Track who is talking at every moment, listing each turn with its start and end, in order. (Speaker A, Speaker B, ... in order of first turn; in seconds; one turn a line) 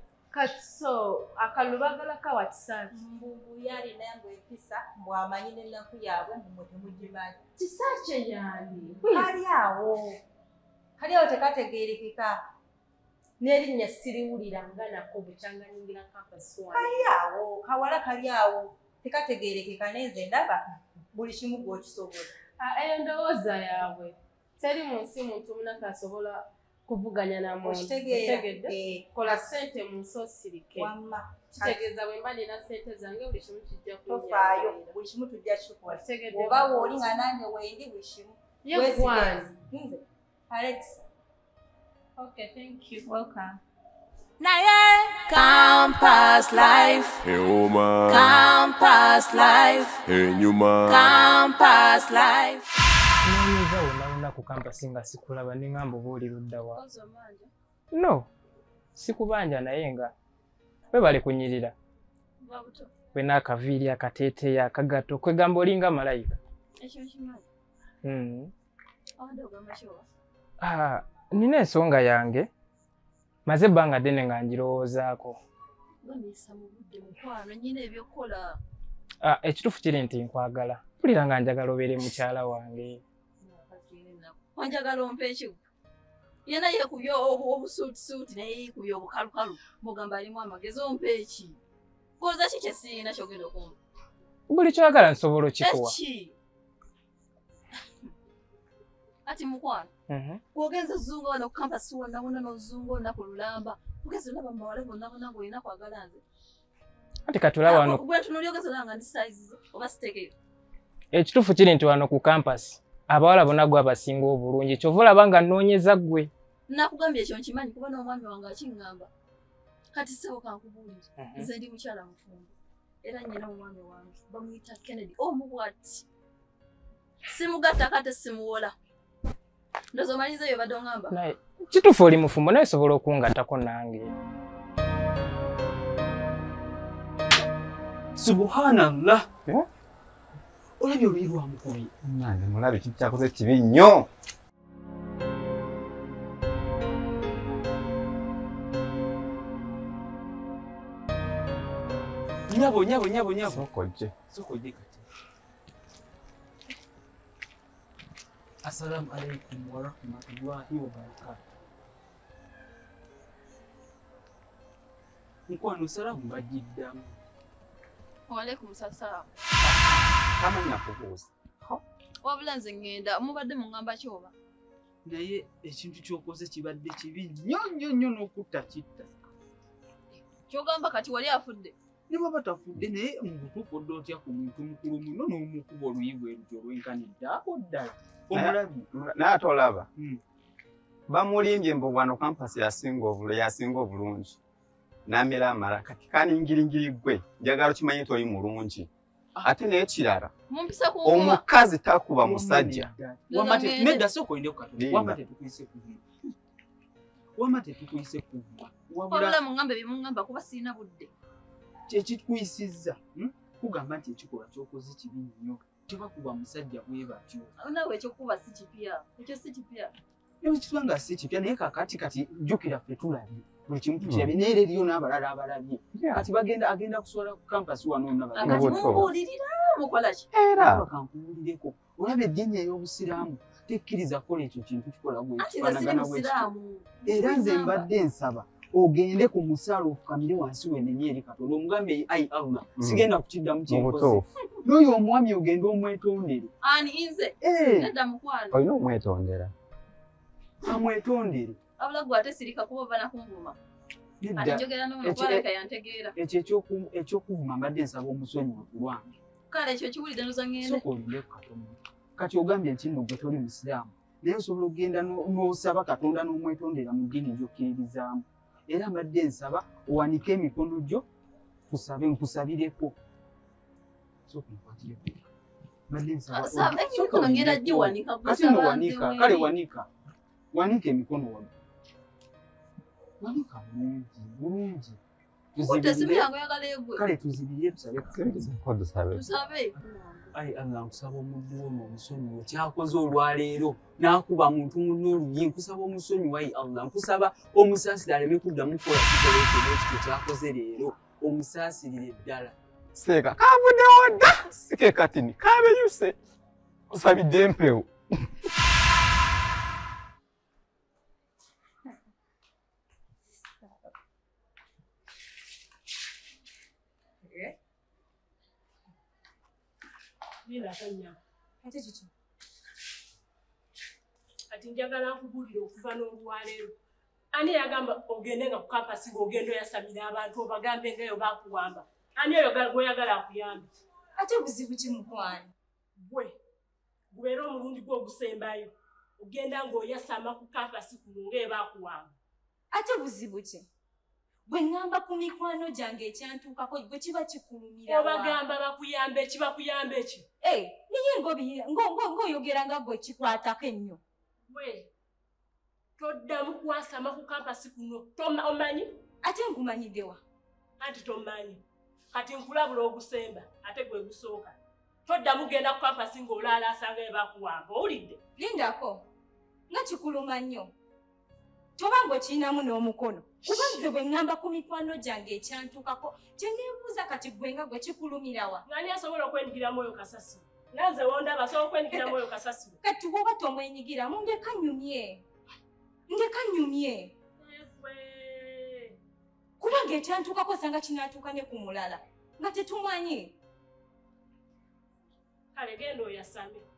Speaker A: 0.3-3.0
Speaker B: 2.9-7.4
Speaker A: 7.6-9.3
Speaker B: 9.0-10.2
Speaker B: 11.0-12.4
Speaker B: 13.4-13.7
Speaker A: 13.8-17.0
Speaker B: 16.7-22.3
Speaker A: 22.6-30.9
Speaker B: 27.6-29.5
Speaker B: 30.8-31.8
Speaker A: 31.6-34.8
Speaker B: 34.1-41.0
Speaker A: 35.9-37.1
Speaker A: 38.6-39.5
Speaker A: 42.2-42.7
Speaker B: 42.9-43.5
Speaker C: 44.4-47.1
Speaker D: 47.2-48.4
Speaker C: 49.1-49.4
Speaker D: 50.0-51.1
Speaker E: 51.5-52.6
Speaker F: 53.2-56.8
Speaker E: 56.7-57.5
Speaker F: 57.9-58.3
Speaker F: 59.0-60.1
Speaker F: 60.9-61.7
Speaker E: 62.4-62.9
Speaker F: 63.1-66.4
Speaker E: 66.8-67.5
Speaker F: 68.0-68.5
Speaker E: 69.2-70.1
Speaker F: 70.6-72.5
Speaker F: 73.5-75.4
Speaker E: 76.0-78.6
Speaker F: 79.2-83.0
Speaker E: 83.4-85.6
Speaker E: 86.5-91.6
Speaker E: 92.2-93.8
Speaker F: 94.5-96.0
Speaker E: 95.6-96.4
Speaker E: 99.2-99.9
Speaker F: 100.1-100.4
Speaker E: 100.5-106.2
Speaker F: 107.3-108.0
Speaker E: 107.6-110.3
Speaker F: 111.1-116.3
Speaker E: 116.7-119.1
Speaker E: 119.9-126.1
Speaker F: 121.2-121.5
Speaker E: 127.3-128.7
Speaker E: 129.9-131.2
Speaker F: 131.1-134.1
Speaker G: 138.2-139.3
Speaker G: 140.8-141.9
Speaker H: 142.0-144.1
Speaker G: 152.5-155.1
Speaker H: 153.5-154.2
Speaker G: 158.6-161.4
Speaker G: 165.5-167.2
Speaker E: 168.3-169.3
Speaker G: 169.6-170.7
Speaker H: 170.6-171.8
Speaker E: 172.2-174.3
Speaker G: 175.1-179.1
Speaker E: 180.1-181.8
Speaker G: 182.1-188.8
Speaker H: 188.3-189.9
Speaker H: 191.1-194.4
Speaker H: 195.1-198.9
Speaker H: 199.4-200.3
Speaker E: 200.5-201.4
Speaker H: 201.0-202.9
Speaker G: 202.2-206.1
Speaker E: 203.3-204.1
Speaker H: 204.8-205.2
Speaker G: 207.4-209.4
Speaker E: 209.1-211.1
Speaker G: 211.9-217.5
Speaker E: 217.6-219.9
Speaker G: 220.4-229.1
Speaker H: 224.0-224.3
Speaker H: 225.9-226.2
Speaker E: 228.3-230.3
Speaker H: 228.4-229.1
Speaker H: 230.3-230.9
Speaker G: 230.6-236.5
Speaker E: 235.4-237.9
Speaker G: 237.1-246.5
Speaker H: 242.8-243.1
Speaker H: 243.7-244.2
Speaker E: 246.6-248.6
Speaker G: 247.4-247.9
Speaker H: 248.5-249.5
Speaker G: 250.6-251.6
Speaker E: 251.8-253.6
Speaker G: 254.2-255.5
Speaker E: 254.4-256.1
Speaker G: 256.2-259.1
Speaker E: 259.5-260.8
Speaker G: 260.6-271.1
Speaker G: 271.7-273.0
Speaker G: 274.3-275.2
Speaker G: 275.9-279.9
Speaker E: 276.3-279.5
Speaker G: 280.5-281.5
Speaker G: 283.2-285.0
Speaker G: 285.6-286.3
Speaker E: 285.6-287.1
Speaker G: 286.9-288.1
Speaker H: 288.1-289.2
Speaker E: 289.1-290.3
Speaker G: 290.3-302.6
Speaker H: 302.9-306.2
Speaker H: 306.9-307.9
Speaker I: 320.5-321.2
Speaker J: 321.6-322.1
Speaker I: 324.5-326.7
Speaker I: 327.3-333.7
Speaker J: 334.2-335.5
Speaker I: 336.0-336.4
Speaker I: 337.1-342.2
Speaker J: 342.7-343.7
Speaker J: 344.5-348.4
Speaker I: 347.9-350.3
Speaker J: 350.4-354.0
Speaker I: 354.5-354.9
Speaker I: 356.0-358.9
Speaker J: 359.2-360.2
Speaker I: 360.8-361.6
Speaker I: 362.1-368.2
Speaker J: 368.4-369.0
Speaker J: 369.7-370.7
Speaker J: 371.8-378.6
Speaker I: 373.5-373.8
Speaker I: 378.7-382.8
Speaker J: 382.8-385.2
Speaker J: 386.1-387.1
Speaker I: 387.4-389.0
Speaker J: 389.6-393.4
Speaker I: 395.5-396.7